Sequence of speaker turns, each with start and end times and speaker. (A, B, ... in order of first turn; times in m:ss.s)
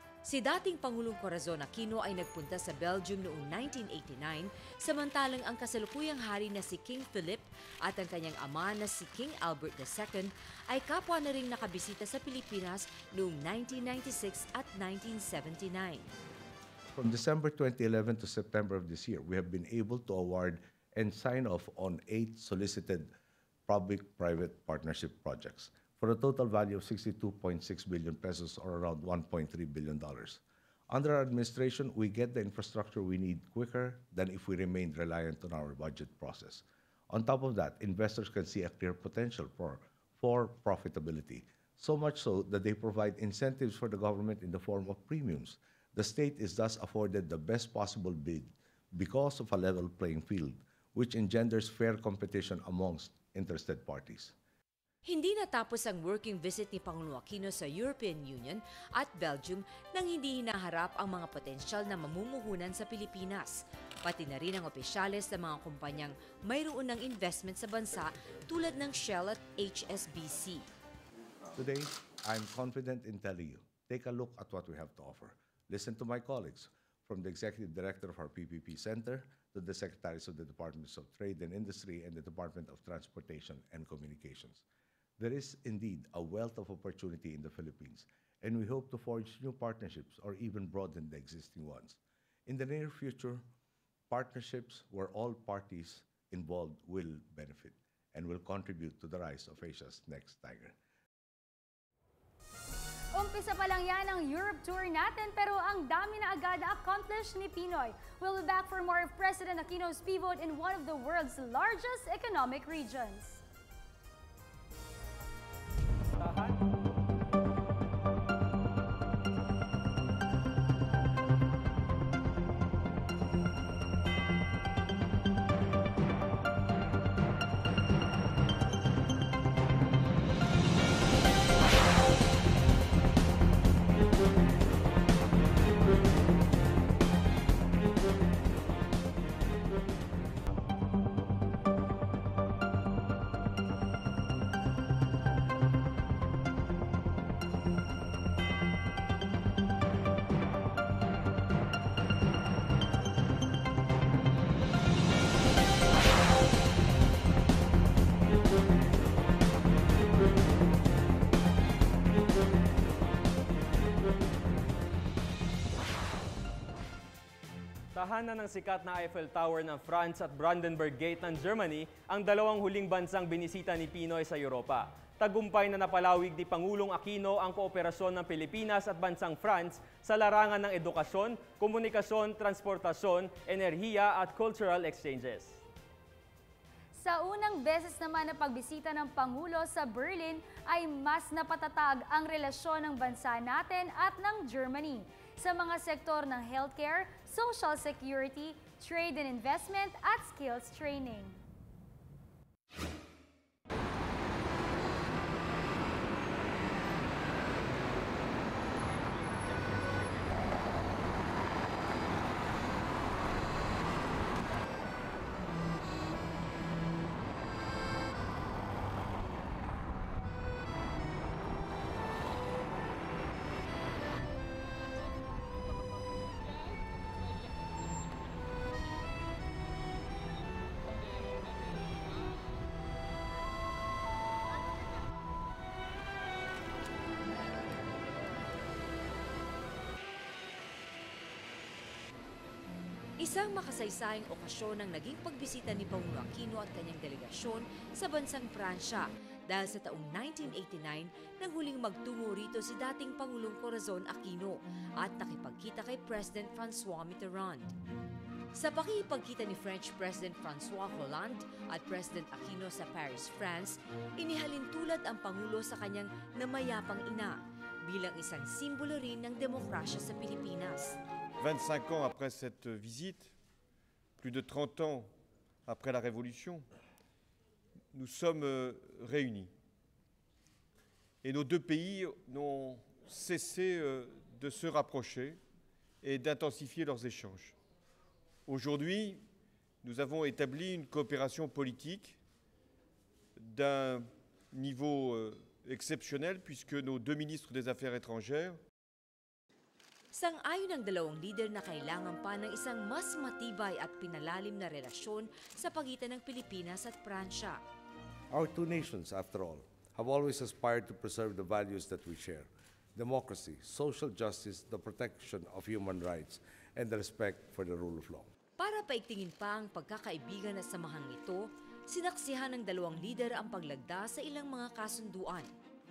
0:00.3-0:16.1 A
0:17.0-0:23.1 B
0:23.7-0:54.3 B
0:55.1-1:10.6 A
1:11.6-1:24.6 B
1:25.2-1:33.4 B
1:34.1-1:40.8 B
1:43.2-1:53.4 C
1:56.2-1:56.6 D
2:48.0-3:05.6 D
3:07.0-3:21.4 C
4:03.2-4:17.7 A
4:18.6-4:31.0 A
4:31.4-4:33.3 E
4:34.2-4:35.1 E
4:35.7-4:36.7 E
4:37.9-4:39.5 E
4:41.2-4:45.4 E
4:46.0-4:47.6 E
4:48.5-4:49.2 E
4:49.8-4:52.2 E
4:53.4-4:58.6 E
5:00.1-5:07.6 A
5:08.3-5:18.3 B
5:18.6-5:25.5 A